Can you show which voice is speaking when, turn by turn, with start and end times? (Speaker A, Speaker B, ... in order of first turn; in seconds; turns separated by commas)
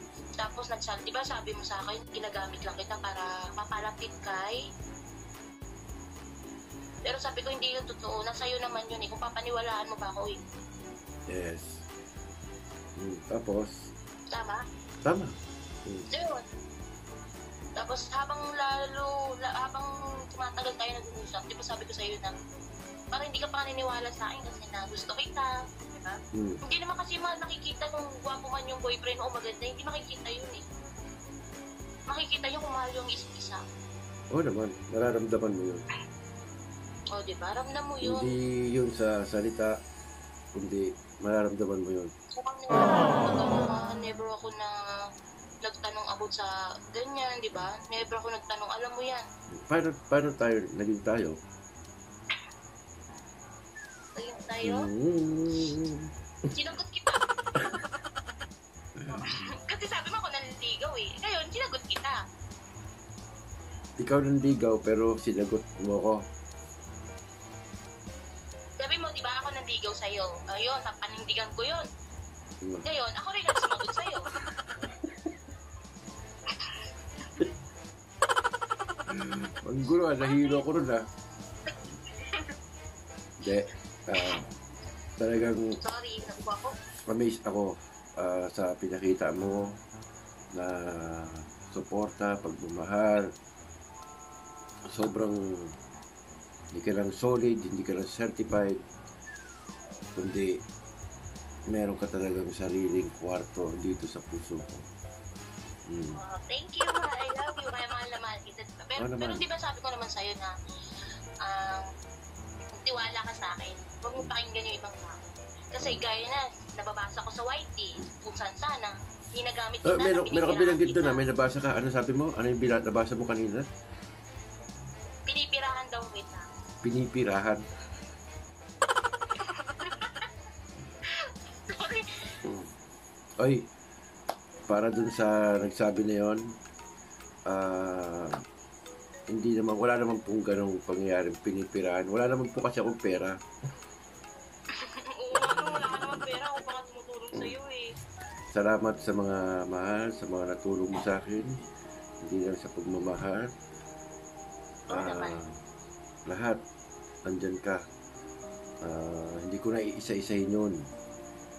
Speaker A: 0.3-4.6, Speaker A: 7.0-10.4, Speaker B: 11.3-11.8, Speaker B: 13.0-13.9, Speaker A: 14.3-14.6, Speaker B: 15.0-15.3, Speaker A: 16.1-16.4, Speaker A: 17.8-22.3, Speaker A: 23.1-30.6, Speaker B: 26.3-26.6, Speaker A: 32.1-33.6, Speaker B: 34.3-35.9, Speaker A: 37.1-38.3, Speaker B: 38.0-39.7, Speaker B: 40.5-42.1, Speaker A: 42.3-44.7, Speaker A: 45.6-49.2, Speaker B: 49.5-51.4, Speaker A: 54.1-54.8, Speaker B: 54.6-56.1, Speaker A: 56.5-57.2, Speaker B: 59.0-59.4, Speaker A: 59.1-62.2, Speaker B: 64.0-66.2, Speaker A: 68.8-71.8, Speaker A: 72.8-74.2, Speaker A: 76.5-76.8, Speaker B: 79.1-81.0, Speaker A: 80.2-80.7, Speaker A: 82.1-82.5, Speaker B: 83.4-84.5, Speaker B: 85.2-85.8, Speaker A: 85.8-86.7, Speaker B: 87.1-89.7, Speaker B: 90.5-93.3, Speaker B: 94.9-95.7, Speaker B: 96.7-98.8, Speaker B: 100.2-100.6, Speaker B: 101.7-104.9, Speaker B: 105.9-106.2, Speaker A: 106.1-110.5, Speaker B: 109.0-109.4, Speaker A: 111.4-111.9, Speaker A: 112.8-121.2, Speaker B: 115.8-116.0, Speaker B: 119.8-123.7, Speaker A: 125.3-126.5, Speaker B: 126.8-127.6, Speaker A: 129.5-130.3, Speaker A: 131.7-132.1, Speaker B: 132.4-132.7, Speaker B: 133.4-133.7, Speaker B: 134.7-136.6, Speaker B: 137.5-138.4, Speaker B: 139.3-143.4, Speaker A: 144.8-147.9, Speaker B: 145.6-146.1, Speaker B: 148.5-151.6, Speaker B: 152.2-153.5, Speaker B: 154.9-155.5, Speaker A: 154.9-155.4, Speaker B: 156.3-156.6, Speaker B: 157.2-157.8, Speaker B: 158.8-160.8